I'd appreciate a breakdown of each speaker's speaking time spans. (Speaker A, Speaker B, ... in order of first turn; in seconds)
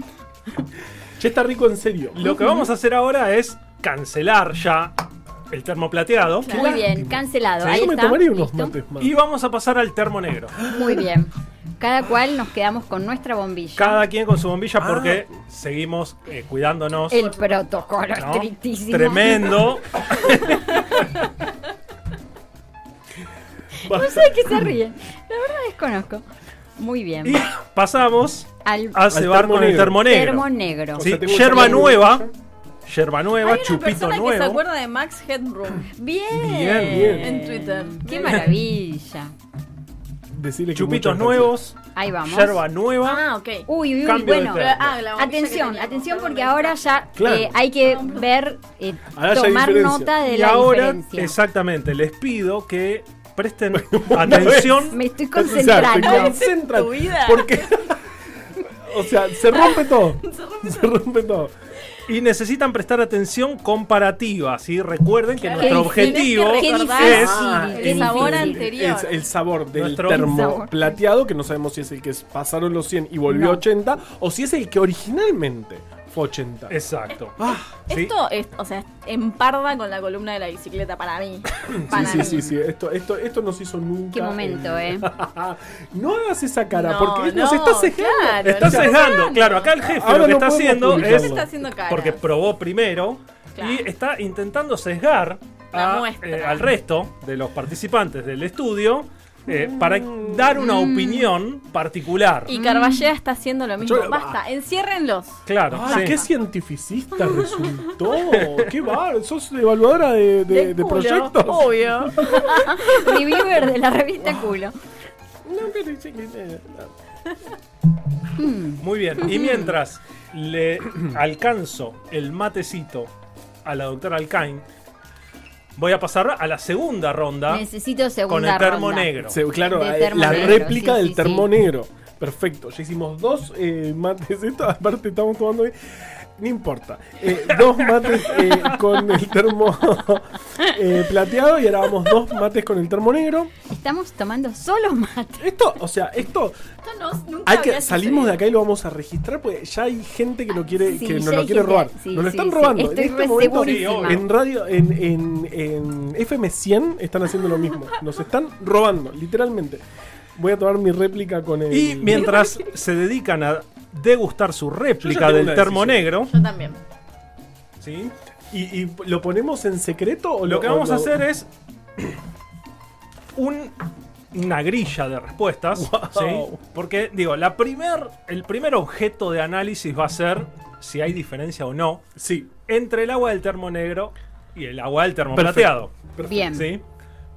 Speaker A: 1.2-2.2, 6.5-9.1, 10.6-11.0, 14.8-15.3, 23.9-24.6, 29.1-30.0, 30.9-32.3, 36.8-37.3, 40.3-41.5, 47.1-47.6, 49.1-50.2, 53.7-61.5, 67.0-76.7, 77.4-77.7, 81.6-88.9, 89.8-91.5, 99.5-100.5, 103.8-104.4, 105.7-112.5, 115.4-116.9, 129.2-135.7, 136.4-143.5, 145.4-146.6, 147.4-159.8, 160.3-162.3, 165.0-166.1, 168.5-171.2, 175.7-176.6, 182.2-182.5, 185.3-186.6
Speaker B: 2.1-6.5, 7.6-7.9, 9.0-10.6, 13.8-17.2, 18.1-21.2, 27.2-32.3, 32.9-34.6, 36.3-37.1, 38.1-38.5, 40.7-43.3, 44.0-45.0, 50.2-55.0, 62.1-67.4, 69.7-70.3, 76.7-78.1, 88.4-102.5, 105.5-106.2, 108.3-108.7, 118.8-123.1, 123.6-124.7, 125.8-127.7, 128.3-129.4, 130.2-130.6, 138.1-138.5, 153.6-154.2, 161.7-166.3, 167.8-168.1, 170.4-171.5, 173.3-173.8, 174.3-182.0, 182.7-185.9, 186.5-186.8
Speaker C: 2.3-2.7, 6.5-8.8, 10.7-14.0, 17.1-19.6, 23.8-26.2, 26.8-27.4, 28.6-29.0, 30.0-31.9, 35.9-39.3, 41.9-42.6, 43.7-51.4, 54.2-56.4, 65.6-68.7, 70.1-70.9, 73.3-73.6, 81.9-82.5, 84.1-85.1, 100.5-101.3, 102.5-103.1, 112.2-114.7, 118.4-119.8, 127.5-131.5, 143.7-145.4, 150.8-154.2, 186.2-186.7
Speaker D: 6.3-6.8, 33.4-35.9, 37.0-38.5, 43.0-47.0, 47.8-48.2, 55.9-57.8, 59.5-61.0, 65.4-67.2, 67.7-69.2, 77.5-82.5, 86.7-89.7, 90.9-92.2, 93.5-93.8, 95.7-96.7, 102.5-106.2, 107.2-108.1, 110.5-113.4, 146.8-148.4, 162.2-162.6, 166.2-166.8